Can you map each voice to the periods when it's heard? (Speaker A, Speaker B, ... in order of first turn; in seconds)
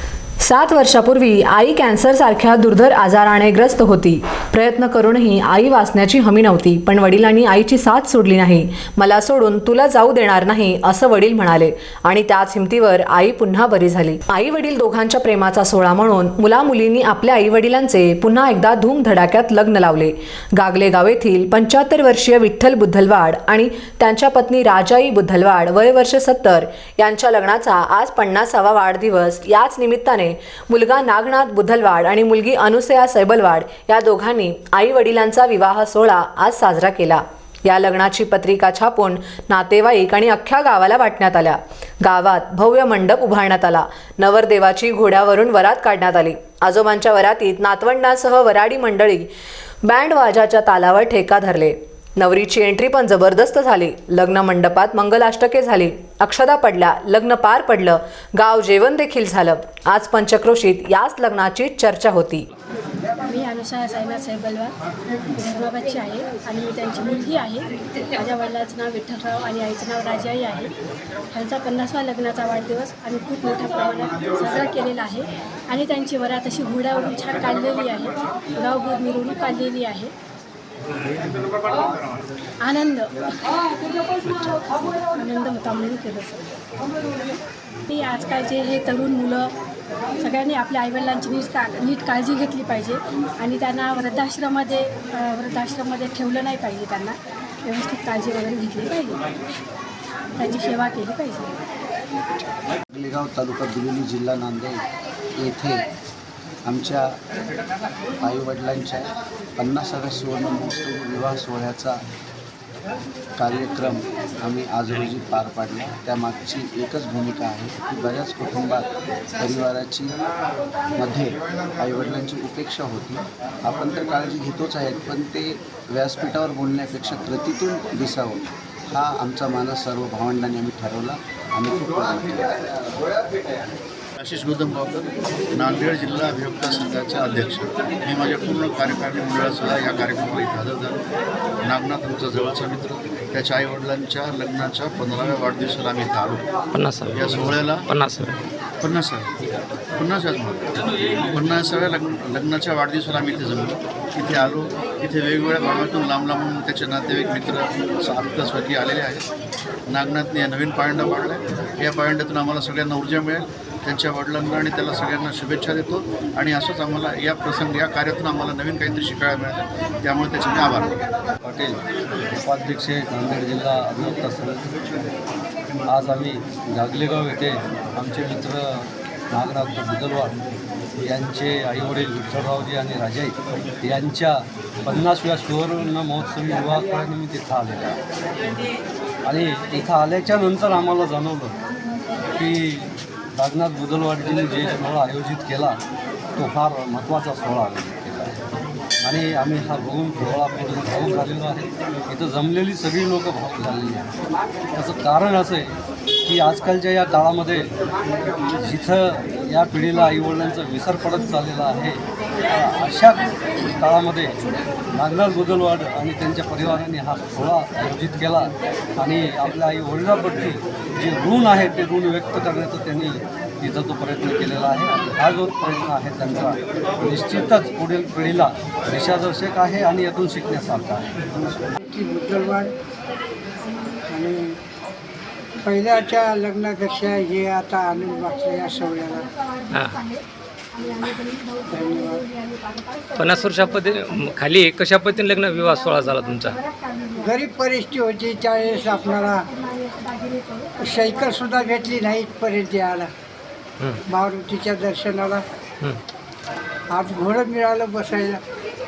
Speaker A: 0.4-49.3, 49.9-62.5
Speaker B: 63.2-64.7, 65.4-70.7, 71.3-80.1, 82.6-83.2, 84.3-86.6, 87.9-89.5, 90.2-99.2, 100.4-101.6
Speaker C: 84.2-84.5, 146.8-148.4, 239.7-240.1, 243.2-246.6
Speaker D: 102.9-104.8, 105.4-105.9, 106.7-107.2, 108.2-112.0, 113.4-120.2, 121.0-132.8
Speaker E: 134.2-141.0, 141.6-146.4, 147.1-147.9, 148.8-149.3, 150.0-159.3, 159.9-171.1
Speaker F: 171.4-171.8, 172.4-174.7, 175.9-180.4, 181.0-188.0, 189.2-191.6, 192.4-195.8, 196.4-198.4, 199.0-204.1, 204.7-207.7, 208.5-214.4, 214.9-231.2
Speaker G: 231.9-232.7, 234.1-234.6, 235.6-239.3, 241.7-242.2, 247.2-249.4, 250.8-253.1, 254.1-255.4, 256.9-258.4